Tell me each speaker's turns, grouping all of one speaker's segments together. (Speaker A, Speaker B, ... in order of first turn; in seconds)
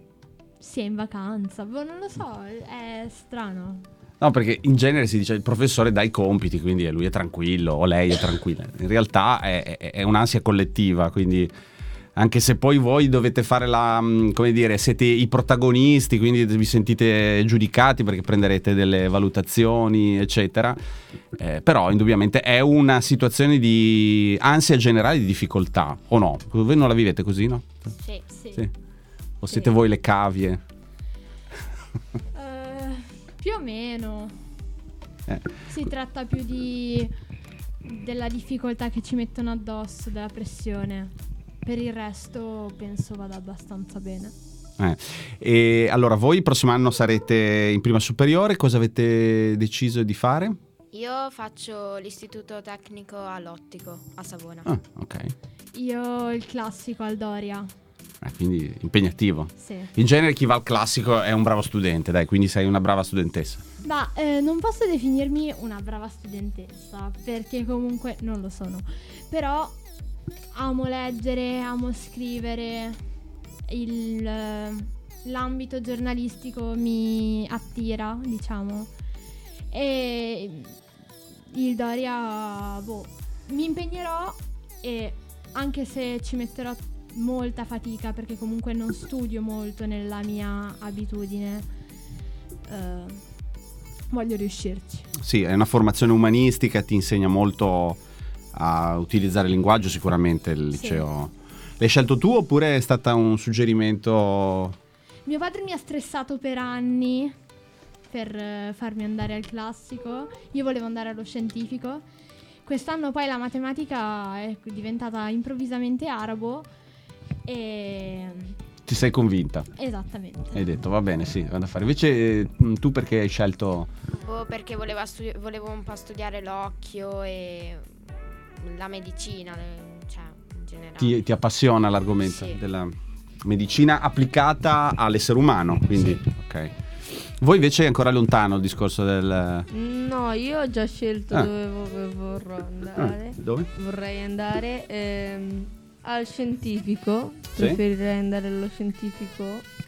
Speaker A: 0.6-3.9, 28.3-28.7, 32.3-34.4, 35.6-37.1, 37.8-44.3, 55.7-57.7, 59.6-59.9, 63.8-69.8, 70.5-73.0, 73.7-78.9, 79.7-80.8, 81.5-91.7, 92.7-93.2, 94.1-95.1, 100.7-101.0, 105.2-107.3, 108.1-112.0, 112.6-116.7, 117.4-118.5, 119.8-120.7
Speaker B: 4.2-11.5, 12.2-20.8, 21.4-27.9, 29.4-30.6, 35.3-35.6, 44.8-50.6, 54.6-55.3, 58.2-63.6, 95.2-98.0, 98.5-104.8, 118.9-119.7, 120.5-123.9, 131.0-139.7, 143.0-143.7
Speaker C: 28.0-28.2, 50.9-54.7, 124.2-127.9, 128.6-131.2, 132.2-132.6, 135.9-136.2
Speaker D: 139.7-149.7